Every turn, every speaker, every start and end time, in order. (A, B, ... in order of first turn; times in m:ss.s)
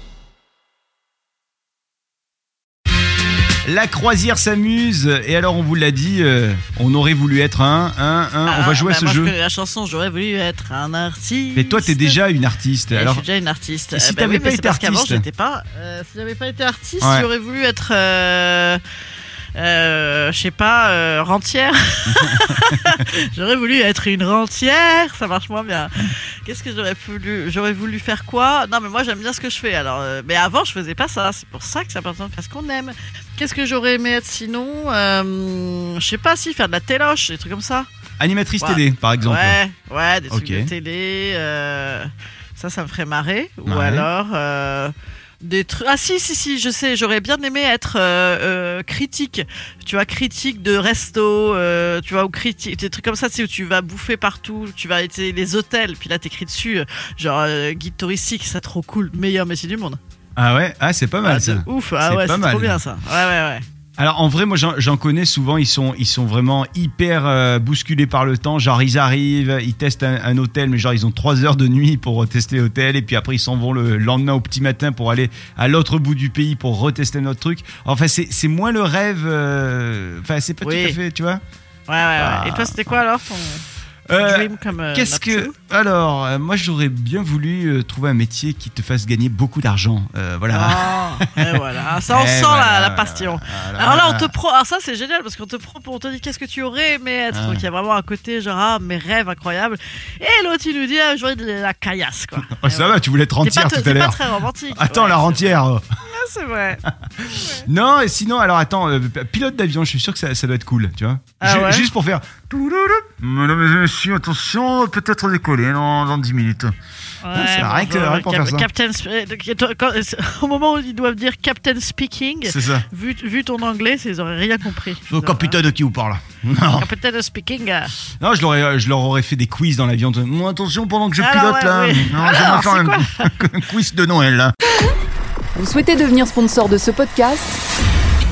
0:03.6-0:09.3 A
0:08.5-0:12.2 B
0:11.5-0:13.2 A
0:12.9-0:18.8 B
0:13.9-0:15.2 A
0:17.0-0:17.3 A
0:19.6-0:37.9 B
0:22.1-0:23.0 A
0:38.2-0:39.6 A
0:38.6-1:00.0 B
0:40.3-0:40.7 A
0:43.7-0:44.1 A
1:00.4-1:02.8 A
1:01.2-1:03.6 B
1:04.0-1:21.4 A
1:20.6-1:21.0 B
1:21.9-1:25.5 B
1:22.2-1:22.8 A
1:24.1-1:34.3 A
1:30.5-1:47.7 B
1:37.3-1:37.7 A
1:42.4-1:44.2 A
1:44.7-1:45.8 A
1:47.4-1:56.7 A
1:51.4-1:51.9 B
1:57.2-2:05.6 B
1:57.3-1:58.7 A
2:02.4-2:02.8 A
2:05.1-2:06.9 A
2:06.8-2:07.9 B
2:08.2-2:14.5 A
2:11.2-2:13.3 B
2:15.5-2:17.5 C